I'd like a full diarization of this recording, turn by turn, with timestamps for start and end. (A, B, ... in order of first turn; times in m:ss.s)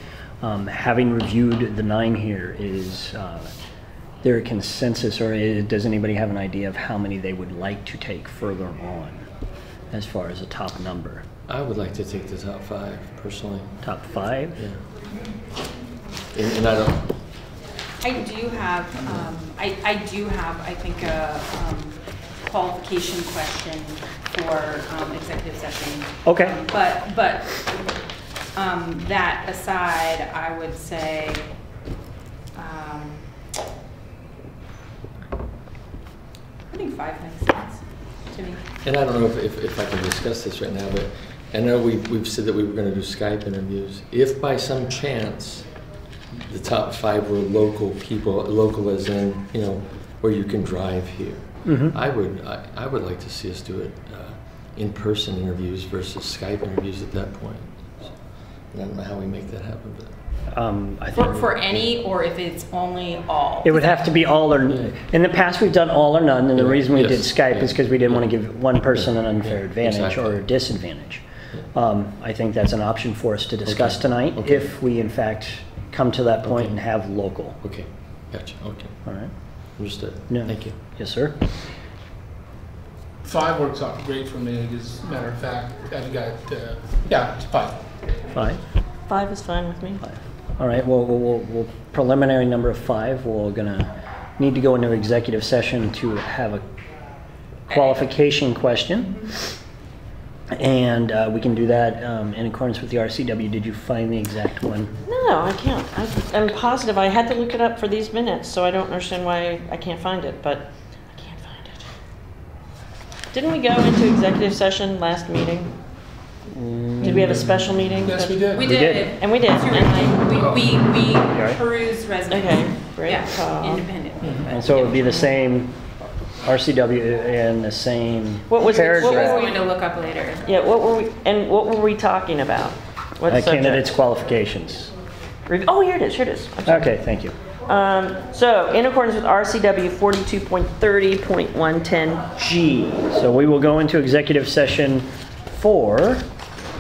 0:00.4-0:03.5 A
0:04.2-0:09.2 A
0:09.9-0:11.3 A
0:11.5-0:13.8 B
0:13.8-0:14.7 A
0:16.3-0:17.1 B
0:18.0-0:27.6 C
0:26.2-0:26.6 A
0:28.6-0:31.4 C
0:32.6-0:33.2 C
0:36.7-0:38.6 C
0:38.8-0:45.7 B
0:46.4-0:58.1 B
0:51.7-0:52.0 A
0:58.7-1:00.1 B
1:00.5-1:01.4 A
1:01.1-1:03.9 C
1:03.6-1:17.6 A
1:06.6-1:08.2 B
1:09.0-1:10.4 B
1:13.7-1:14.7 B
1:16.4-1:16.7 B
1:17.6-1:18.9 B
1:19.0-1:19.3 A
1:19.8-1:20.8 B
1:20.3-1:21.4 A
1:23.2-1:27.8 D
1:28.3-1:28.6 A
1:29.1-1:30.0 E
1:30.0-1:36.6 A
1:37.7-1:39.4 A
1:40.5-1:45.0 A
1:45.1-1:51.8 E
1:53.3-1:55.8 E
1:56.5-1:57.5 A
1:57.0-1:59.2 D
1:57.1-1:58.5 E
1:58.5-2:05.5 C
1:58.6-1:59.1 A
1:59.2-2:00.0 E
2:00.3-2:00.8 D
2:01.2-2:01.6 A
2:02.3-2:03.9 E
2:04.5-2:05.8 A
2:06.4-2:09.5 A
2:08.5-2:09.6 E
2:08.7-2:10.5 C
2:10.4-2:13.9 E
2:13.3-2:14.9 A
2:15.5-2:16.9 E
2:16.6-2:17.4 A
2:17.7-2:22.4 E
2:22.4-2:26.2 A